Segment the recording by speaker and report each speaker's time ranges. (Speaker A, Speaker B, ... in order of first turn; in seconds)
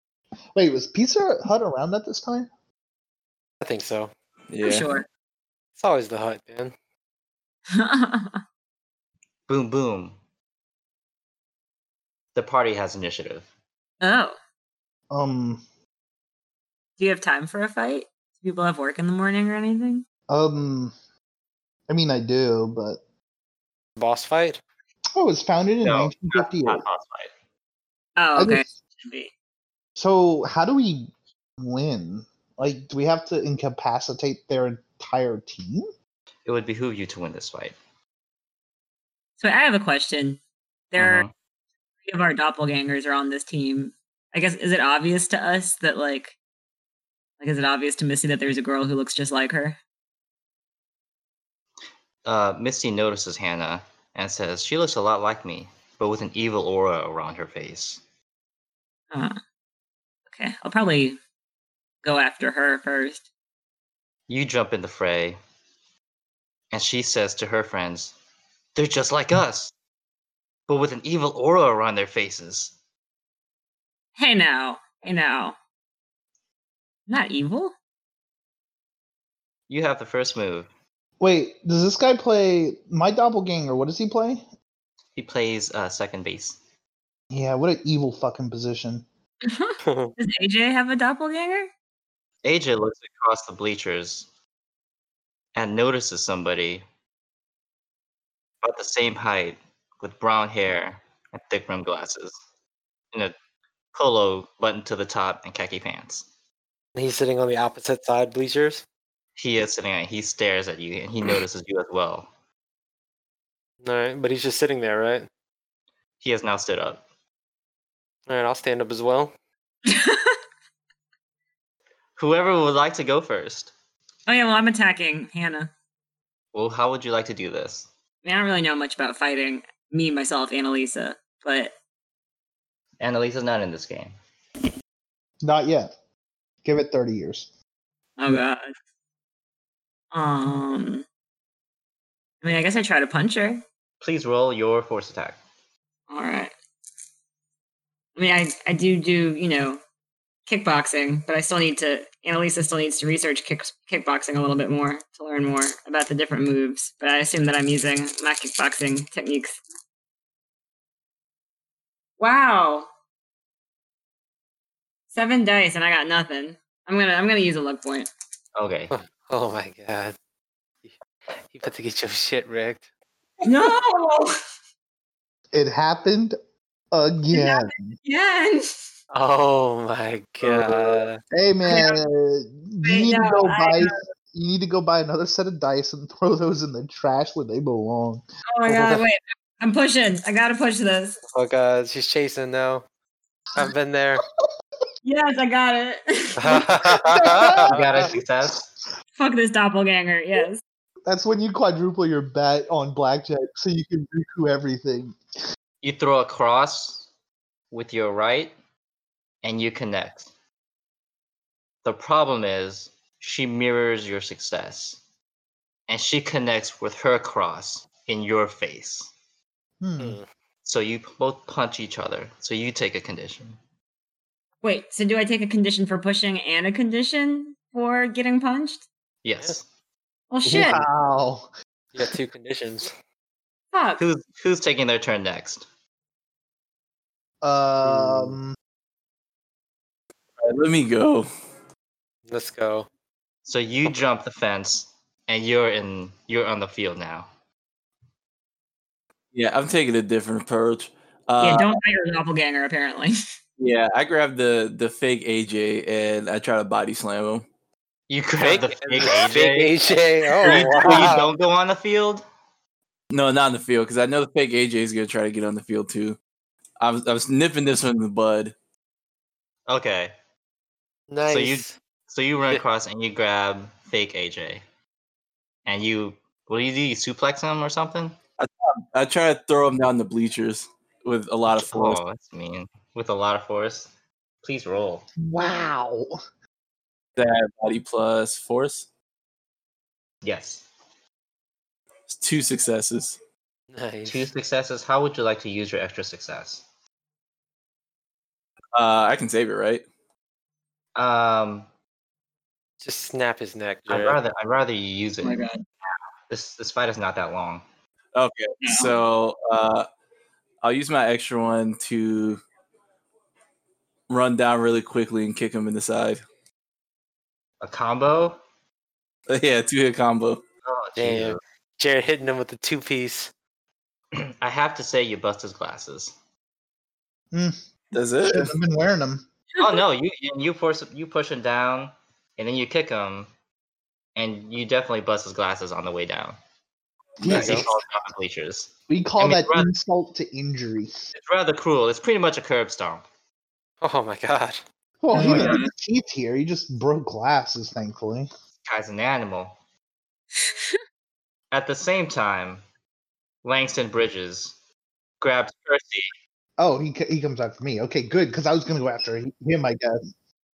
Speaker A: 0.5-2.5, 15.1-15.6, 20.3-20.9, 21.9-23.0, 25.1-26.8, 28.4-28.6, 30.0-35.9, 81.2-84.5, 87.3-89.0, 135.4-135.9, 136.6-137.5, 175.5-176.3, 176.9-178.0, 181.3-188.2, 196.8-197.8, 201.1-205.2, 219.8-220.2, 230.4-231.5, 237.4-238.5, 285.2-286.2, 327.3-327.6, 328.2-329.2, 337.2-337.7, 338.9-340.9, 345.0-348.3, 356.6-360.1
Speaker B: 3.6-4.1, 5.8-6.7, 24.0-24.6, 89.8-90.1, 106.9-108.8, 113.8-115.3, 118.3-119.3, 168.9-170.2, 171.5-172.9, 179.1-181.2, 191.3-192.8, 193.5-194.2, 196.4-197.9, 220.0-220.3, 231.9-232.9, 237.8-238.4, 242.3-242.9, 258.4-261.3, 271.1-271.8, 293.7-294.3, 302.8-304.2, 321.0-323.3, 337.3-337.7, 343.8-344.6
Speaker C: 4.5-4.9, 180.5-181.0, 240.4-241.3, 249.3-251.8, 253.6-257.5, 263.1-266.2, 266.8-268.5, 278.4-282.0, 287.1-288.9, 292.1-293.1, 298.7-299.9, 308.1-309.9, 310.6-312.4, 314.1-316.2, 319.3-320.4, 327.9-328.5
Speaker D: 4.6-5.0, 7.7-8.4, 14.0-14.4, 17.0-20.0, 28.2-29.3, 39.4-40.4, 40.9-41.2, 42.0-46.3, 47.4-49.8, 59.1-59.4, 60.3-61.2, 62.0-63.2, 74.2-75.5, 77.1-77.7, 89.5-91.7, 119.9-120.3, 124.3-125.7, 128.2-131.7, 138.2-138.7, 140.1-141.0, 142.4-143.6, 146.1-146.5, 148.2-149.8, 150.5-159.6, 162.2-162.9, 165.1-168.1, 173.4-174.3, 177.3-178.9, 181.6-182.0, 182.8-184.0, 188.5-191.2, 195.0-196.7, 199.2-200.6, 224.6-228.8, 230.3-230.8, 233.7-234.0, 251.4-253.2, 305.2-305.6, 308.6-309.0, 345.1-345.7
Speaker E: 9.5-10.1, 12.3-13.4, 25.8-27.3, 36.5-37.8, 41.0-41.3, 52.2-58.0, 64.3-65.4, 66.7-68.1, 68.8-69.7, 70.7-72.7, 79.7-80.7, 85.2-86.6, 92.4-94.3, 95.5-96.8, 98.6-102.3, 103.9-106.3, 109.4-112.3, 116.2-117.0, 122.2-123.7, 126.5-127.9, 133.0-134.1, 144.0-145.4, 168.6-168.9, 197.7-198.7, 205.8-207.1, 207.7-208.5, 209.4-210.3, 211.8-215.0, 215.9-219.1, 220.6-223.6, 229.2-229.6, 234.0-235.7, 243.4-247.3, 258.1-259.8, 260.4-262.2, 269.7-270.1, 271.3-274.6, 275.6-278.2, 281.5-283.9, 284.4-285.1, 290.2-290.6, 294.1-296.6, 300.9-301.7, 303.9-305.5, 306.3-307.6, 317.6-318.4, 320.6-321.4, 324.1-326.1, 329.6-333.3, 334.1-336.4, 337.2-339.7, 341.1-343.0, 345.2-345.6, 348.6-349.6, 351.5-352.6, 353.4-354.6, 355.2-356.1